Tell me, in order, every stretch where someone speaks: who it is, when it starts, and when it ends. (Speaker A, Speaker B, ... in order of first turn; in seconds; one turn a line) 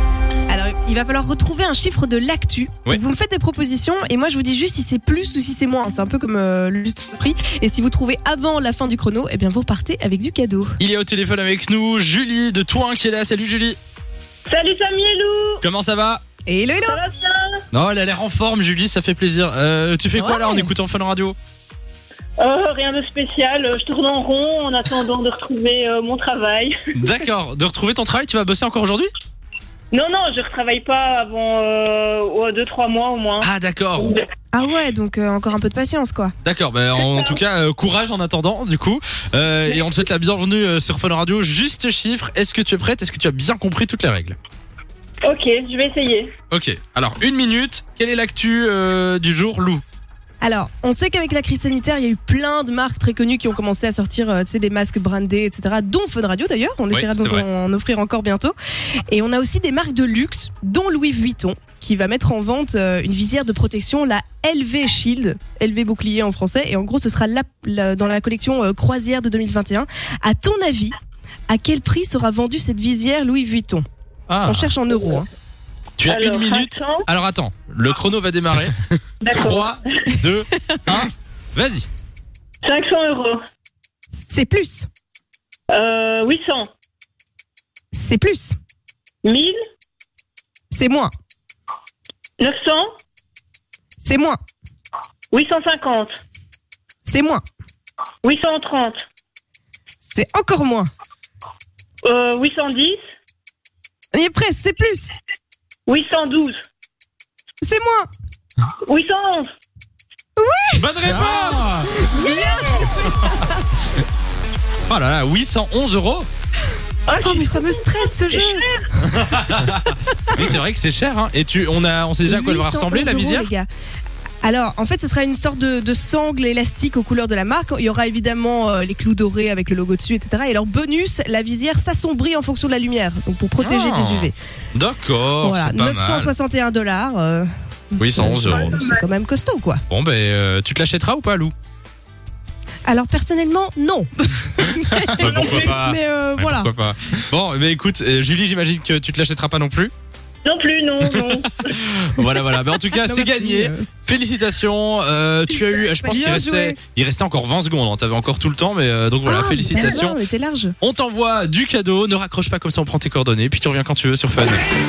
Speaker A: 0.5-10.8
Speaker B: 10.8-13.8
Speaker C: 14.5-15.6
Speaker B: 15.6-16.2
Speaker A: 16.5-17.0
Speaker C: 16.9-17.5
Speaker B: 17.7-21.4
Speaker A: 20.1-20.7
Speaker C: 22.4-26.8
Speaker B: 26.9-29.1
Speaker C: 29.9-33.5
Speaker B: 33.4-34.1
Speaker A: 34.5-36.3
Speaker B: 36.4-44.4
Speaker C: 37.0-37.4
Speaker C: 45.2-46.3
Speaker B: 46.5-49.8
Speaker A: 50.4-58.5
Speaker B: 56.9-57.5
Speaker A: 59.1-70.9
Speaker A: 71.5-73.8
Speaker B: 74.3-74.7
Speaker A: 74.4-75.3
Speaker B: 76.0-81.9
Speaker C: 76.1-77.0
Speaker C: 79.2-79.8
Speaker C: 82.6-83.4
Speaker A: 84.2-84.9
Speaker C: 85.7-86.7
Speaker A: 87.9-88.5
Speaker C: 89.2-89.5
Speaker A: 90.7-91.1
Speaker C: 92.4-92.9
Speaker A: 94.0-94.4
Speaker C: 95.3-96.2
Speaker A: 97.1-97.4
Speaker C: 98.2-99.0
Speaker A: 100.1-100.9
Speaker C: 102.0-103.0
Speaker A: 104.1-105.1
Speaker C: 105.9-106.5
Speaker A: 107.6-108.1
Speaker C: 108.9-109.5
Speaker A: 110.4-113.5
Speaker B: 110.8-112.0
Speaker C: 112.1-113.1
Speaker B: 114.8-116.3
Speaker C: 117.1-118.9
Speaker A: 117.2-120.4
Speaker B: 119.0-123.5
Speaker A: 122.2-123.7
Speaker A: 124.4-134.3
Speaker B: 133.6-136.3
Speaker A: 135.4-139.8
Speaker B: 138.0-138.8
Speaker C: 138.4-139.0
Speaker B: 139.9-141.5
Speaker A: 142.8-146.7
Speaker B: 144.9-149.9
Speaker C: 145.2-145.7
Speaker C: 150.4-151.8
Speaker B: 151.1-160.2
Speaker A: 152.3-153.9
Speaker A: 156.0-156.8
Speaker A: 159.2-160.8
Speaker B: 160.8-164.6